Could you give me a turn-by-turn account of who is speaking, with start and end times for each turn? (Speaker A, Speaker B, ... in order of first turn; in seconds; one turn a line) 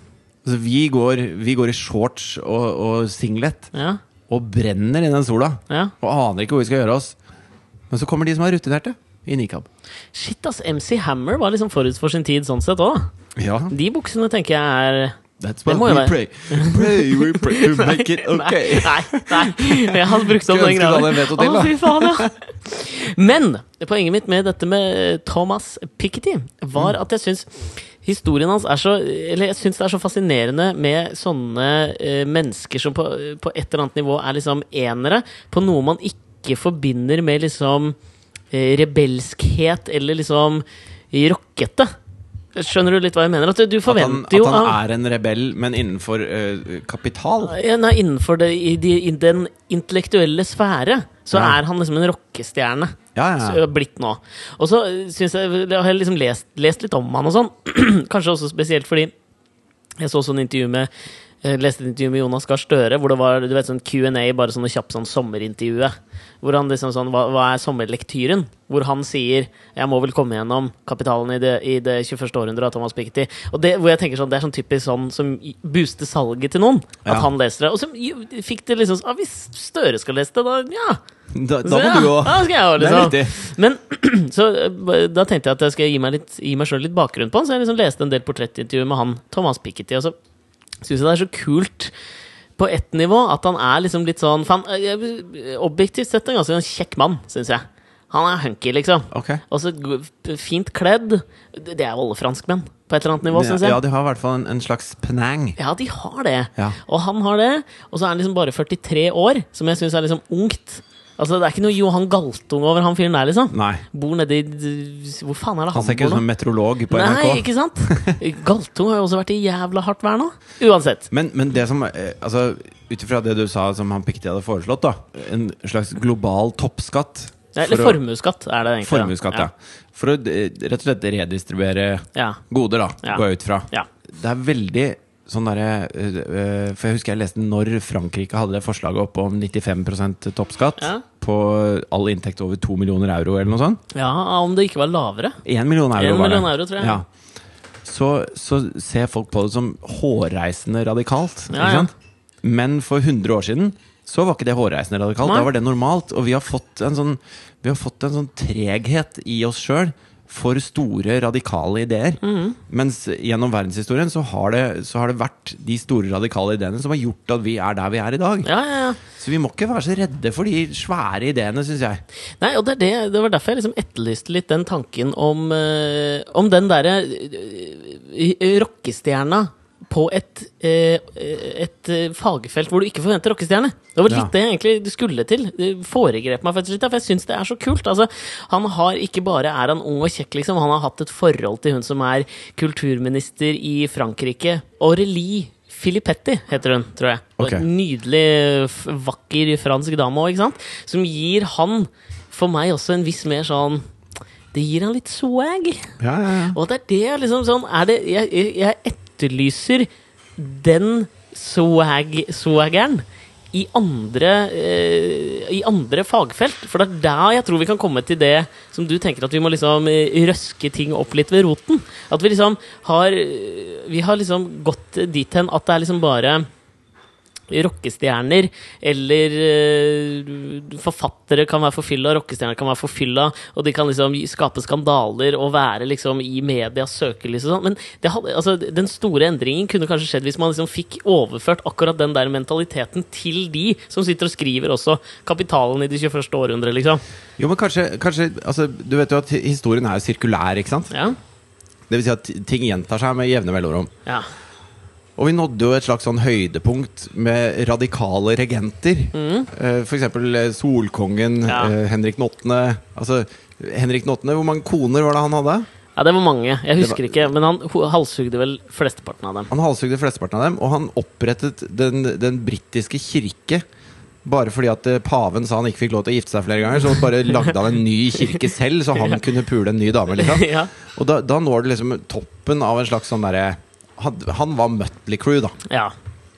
Speaker A: 0.4-3.7
Speaker B: 3.7-4.0
Speaker A: 4.3-7.2
Speaker A: 7.9-9.7
Speaker B: 10.1-13.1
Speaker A: 13.3-13.7
Speaker B: 13.7-38.0
Speaker A: 15.4-22.3
Speaker B: 38.5-41.9
Speaker B: 42.5-44.8
Speaker A: 43.9-47.6
Speaker B: 47.4-59.1
Speaker A: 51.3-51.6
Speaker A: 53.1-53.6
Speaker B: 60.0-60.9
Speaker B: 61.4-81.0
Speaker A: 81.3-83.4
Speaker B: 81.6-90.1
Speaker B: 90.8-91.9
Speaker B: 92.6-103.8
Speaker A: 99.1-99.4
Speaker A: 103.3-105.6
Speaker B: 105.6-116.2
Speaker A: 113.5-113.8
Speaker A: 115.7-118.2
Speaker B: 116.9-121.1
Speaker A: 121.1-128.0
Speaker B: 127.5-129.5
Speaker A: 128.8-143.8
Speaker B: 132.1-132.4
Speaker B: 133.0-133.9
Speaker B: 140.8-141.0
Speaker B: 143.9-145.4
Speaker A: 145.4-147.1
Speaker B: 145.9-147.0
Speaker A: 147.8-168.5
Speaker B: 151.5-151.9
Speaker B: 155.2-155.5
Speaker B: 162.2-162.6
Speaker B: 168.4-169.0
Speaker A: 169.1-172.0
Speaker B: 172.4-203.8
Speaker A: 197.4-197.7
Speaker B: 204.5-205.9
Speaker A: 206.0-206.6
Speaker B: 206.5-226.5
Speaker B: 227.5-247.0
Speaker A: 247.4-250.9
Speaker B: 250.9-251.2
Speaker A: 251.9-253.9
Speaker A: 255.2-265.7
Speaker B: 259.1-259.5
Speaker B: 261.5-261.7
Speaker B: 265.9-269.5
Speaker A: 266.8-267.3
Speaker A: 269.5-273.6
Speaker A: 274.2-285.6
Speaker B: 280.1-280.7
Speaker B: 285.7-285.9